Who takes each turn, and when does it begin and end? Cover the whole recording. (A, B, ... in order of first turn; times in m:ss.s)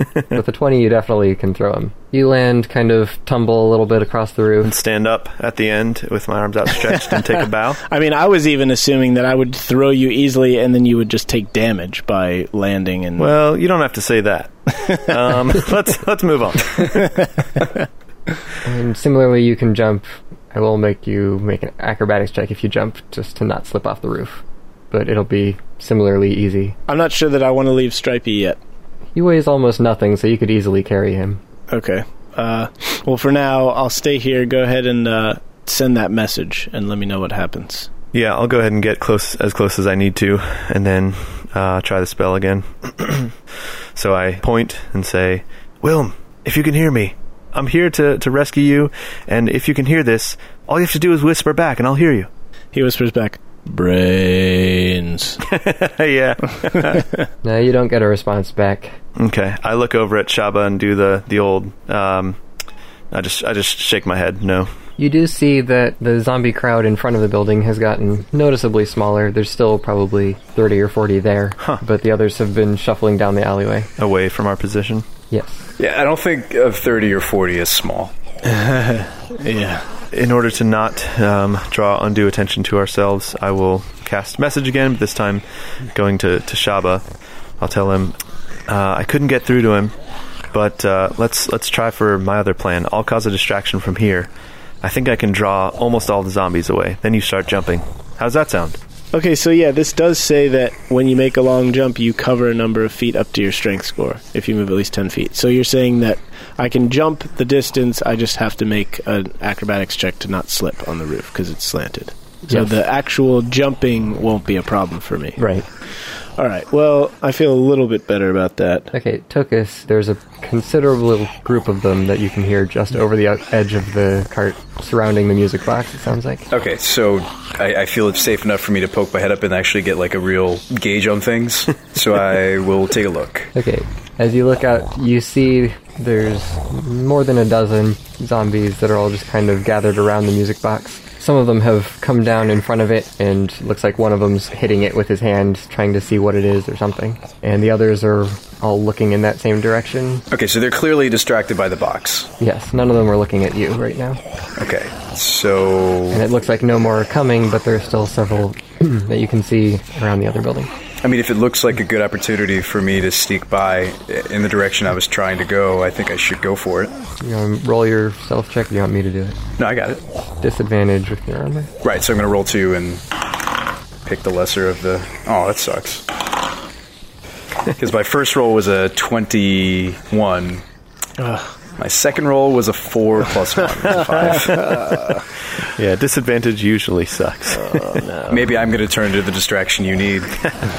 0:00.3-0:04.7 A
0:04.6-0:07.8 B
0:06.9-0:07.2 C
0:07.9-0:13.3 C
0:13.2-0:17.1 B
0:18.6-0:26.8 A
0:26.9-0:28.6 C
0:29.2-0:31.4 A
0:31.7-0:37.9 C
0:38.1-0:43.3 B
0:44.0-0:52.3 B
0:52.7-0:55.4 C
0:55.4-0:57.0 B
0:56.8-0:57.2 C
0:57.4-0:59.0 A
0:59.2-1:02.4 B
1:03.1-1:04.7 B
1:05.0-1:13.9 A
1:14.0-1:15.1 B
1:15.3-1:15.6 A
1:15.8-1:18.1 D
1:18.4-1:19.9 C
1:20.1-1:27.0 B
1:27.6-1:28.2 B
1:28.7-1:29.9 B
1:30.5-1:34.3 B
1:34.8-1:38.8 B
1:39.1-1:58.9 C
1:52.5-1:52.8 A
1:55.4-1:55.7 A
1:58.9-2:06.5 A
2:06.5-2:13.5 D
2:13.6-2:30.2 A
2:30.3-2:32.3 D
2:32.4-2:34.2 A
2:34.6-2:36.2 D
2:36.1-2:40.7 A
2:41.0-2:47.0 D
2:47.2-2:49.4 A
2:49.6-2:50.0 D
2:50.4-2:51.7 A
2:51.8-2:53.0 D
2:54.0-2:56.1 D
2:57.7-3:00.6 D
3:01.2-3:01.6 C
3:01.8-3:05.0 D
3:04.4-3:05.2 C
3:05.8-3:07.8 B
3:07.5-3:08.4 C
3:08.3-3:10.3 D